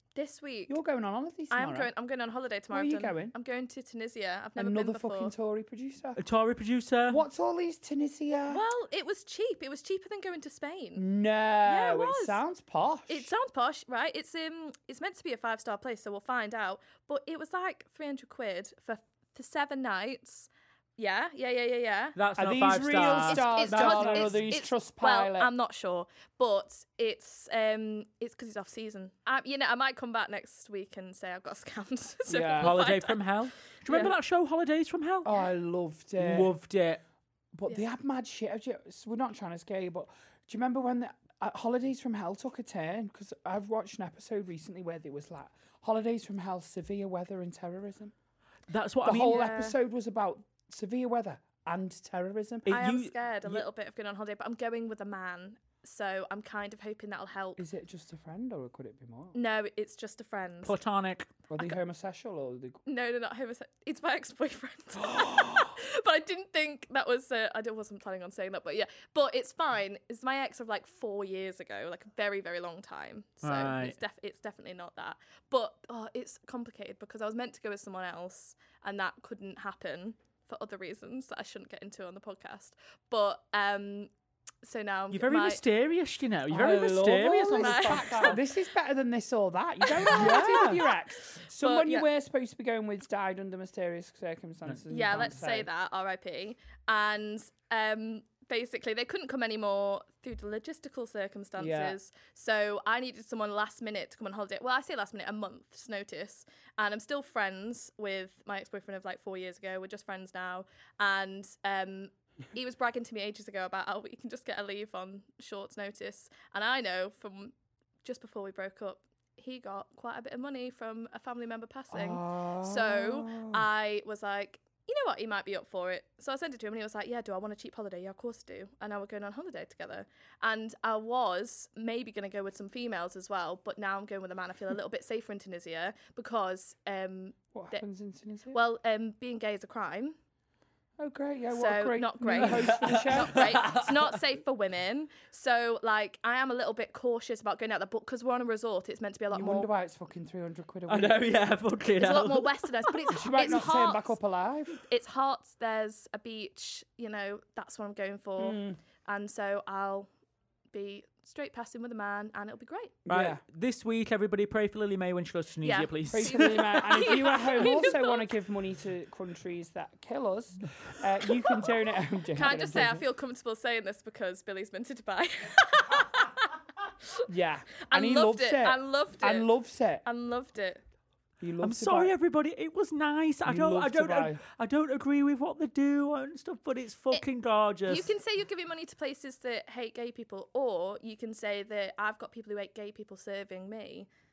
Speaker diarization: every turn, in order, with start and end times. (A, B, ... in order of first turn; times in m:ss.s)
0:00.2-0:00.8 A
0:00.7-0:01.9 B
0:01.5-0:05.3 A
0:02.7-0:03.4 B
0:04.6-0:06.2 B
0:06.2-0:07.2 C
0:07.1-0:08.6 B
0:08.5-0:11.0 A
0:11.0-0:13.3 B
0:11.6-0:12.4 A
0:13.1-0:22.2 A
0:22.2-0:24.5 C
0:22.4-0:25.5 B
0:22.9-0:33.2 A
0:32.3-0:32.8 B
0:32.6-0:35.3 C
0:35.2-0:36.5 B
0:36.2-0:37.0 C
0:37.6-0:48.1 B
0:48.7-0:49.4 C
0:49.0-0:52.7 B
0:49.2-0:49.8 A
0:52.7-0:53.7 C
0:52.7-0:57.6 A
0:57.6-0:59.4 B
0:59.3-1:00.8 A
1:00.6-1:01.3 C
1:01.5-1:02.8 B
1:02.9-1:24.1 A
1:05.1-1:05.7 B
1:13.4-1:14.0 C
1:24.6-1:25.6 A
1:25.1-1:28.4 C
1:26.5-1:35.7 B
1:27.5-1:28.4 A
1:29.9-1:30.8 A
1:30.1-1:30.8 C
1:31.6-1:32.0 A
1:34.7-1:35.1 C
1:34.9-1:57.5 A
1:41.6-1:42.0 B
1:58.0-2:17.8 A
2:01.9-2:03.6 B
2:17.5-2:18.6 B
2:18.5-2:20.2 A
2:21.0-2:23.7 B
2:21.5-2:29.7 A
2:22.3-2:24.2 C
2:29.3-2:31.2 B
2:30.9-2:33.5 C
2:32.0-2:34.2 A
2:33.1-2:34.8 B
2:34.9-2:40.1 A
2:38.4-2:38.8 B
2:40.7-2:43.0 A
2:43.1-2:43.4 B
2:43.1-2:47.7 C
2:45.6-2:48.3 A
2:46.1-2:53.0 B
2:52.4-2:56.5 A
2:57.3-3:00.0 B
2:57.8-2:59.5 A
3:00.0-3:00.8 A
3:01.4-3:02.1 B
3:01.6-3:08.1 C
3:03.5-3:04.4 B
3:07.9-3:14.1 A